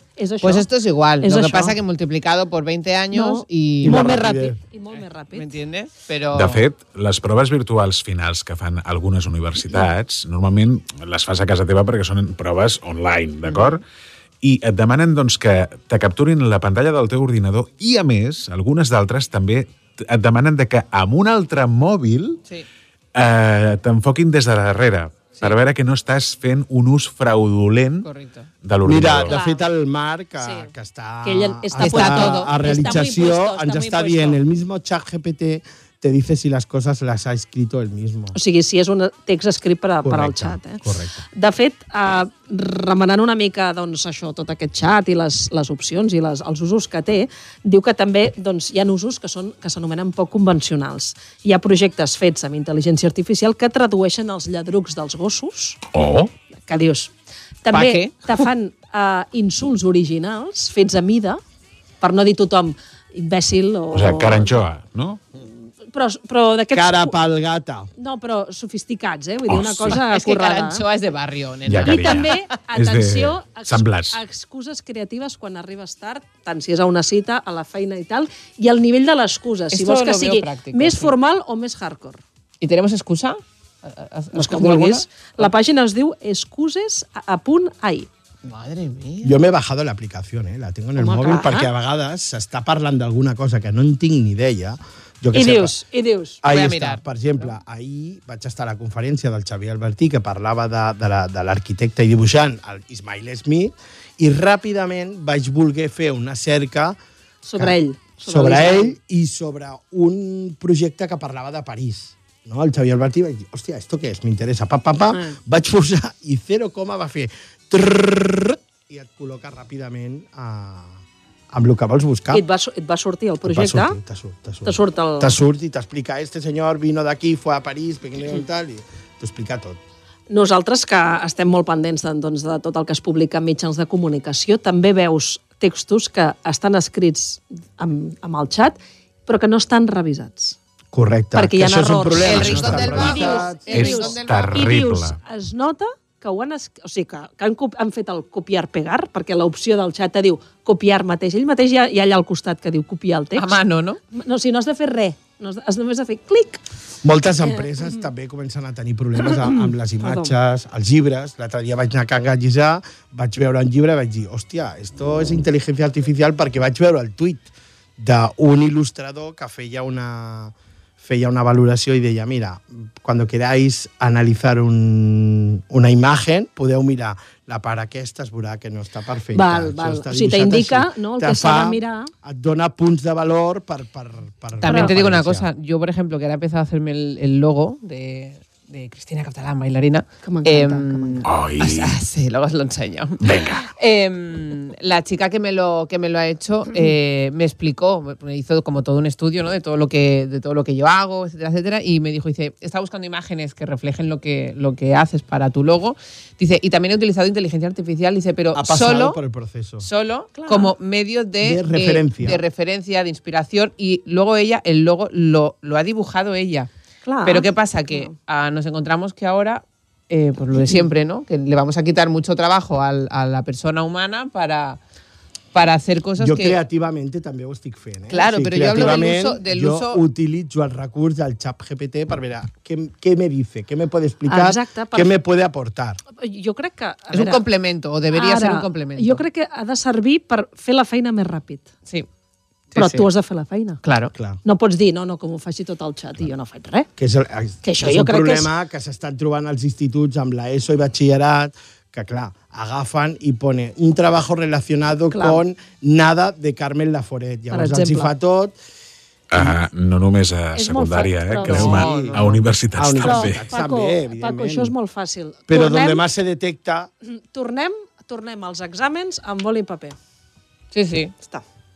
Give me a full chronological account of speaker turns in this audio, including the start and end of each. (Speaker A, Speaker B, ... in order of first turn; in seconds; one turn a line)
Speaker A: 0.2-0.7
Speaker B: 0.4-4.1
Speaker A: 1.2-1.8
Speaker A: 3.1-5.5
Speaker C: 3.8-4.6
Speaker B: 4.9-6.6
Speaker D: 6.3-13.8
Speaker D: 14.4-22.4
Speaker D: 23.1-28.1
Speaker B: 28.0-28.5
Speaker D: 28.6-29.4
Speaker C: 28.8-38.4
Speaker A: 29.2-29.7
Speaker A: 30.4-30.7
Speaker A: 31.2-34.4
Speaker B: 31.8-32.8
Speaker A: 38.3-55.8
Speaker C: 40.0-41.2
Speaker D: 55.9-56.3
Speaker A: 56.6-57.1
Speaker A: 57.6-61.4
Speaker B: 57.7-58.5
Speaker A: 62.0-64.6
Speaker D: 63.9-65.2
Speaker A: 65.9-67.2
Speaker C: 66.7-67.9
Speaker A: 68.0-70.8
Speaker D: 69.5-70.0
Speaker B: 69.9-72.4
Speaker D: 71.7-74.2
Speaker A: 71.8-82.2
Speaker B: 79.7-81.2
Speaker B: 82.6-85.5
Speaker A: 84.3-88.1
Speaker B: 88.5-89.4
Speaker C: 89.2-95.8
Speaker A: 91.0-91.7
Speaker A: 95.3-96.4
Speaker C: 96.4-107.0
Speaker B: 96.5-97.0
Speaker A: 107.4-109.0
Speaker C: 107.6-121.0
Speaker A: 115.1-115.4
Speaker C: 121.5-122.5
Speaker A: 122.3-124.0
Speaker C: 123.4-129.8
Speaker A: 124.7-125.4
Speaker A: 130.3-140.6
Speaker C: 140.9-144.1
Speaker A: 141.3-153.6
Speaker B: 142.2-144.8
Speaker D: 143.7-145.2
Speaker B: 153.3-154.0
Speaker A: 154.1-156.6
Speaker C: 157.0-185.5
Speaker A: 157.4-158.1
Speaker A: 159.2-160.3
Speaker A: 179.3-182.1
Speaker B: 184.6-209.2
Speaker A: 184.6-185.0
Speaker A: 190.2-191.2
Speaker D: 191.2-192.0
Speaker D: 193.2-193.7
Speaker C: 208.5-209.9
Speaker B: 209.8-216.7
Speaker A: 210.4-210.7
Speaker C: 211.4-212.4
Speaker A: 217.1-218.1
Speaker B: 217.2-224.8
Speaker B: 225.5-226.6
Speaker C: 226.2-236.0
Speaker B: 228.1-230.0
Speaker A: 234.3-235.2
Speaker A: 236.1-237.4
Speaker B: 237.1-239.2
Speaker A: 238.1-241.7
Speaker B: 242.7-243.1
Speaker A: 242.8-243.8
Speaker B: 243.8-244.1
Speaker C: 244.2-244.4
Speaker A: 244.4-246.9
Speaker C: 247.0-258.6
Speaker A: 247.6-248.5
Speaker A: 255.1-255.4
Speaker A: 257.5-258.1
Speaker D: 259.3-263.5
Speaker A: 260.6-261.8
Speaker C: 261.5-264.7
Speaker B: 261.5-262.4
Speaker A: 263.0-266.1
Speaker C: 265.5-266.9
Speaker A: 267.3-270.0
Speaker B: 270.7-271.1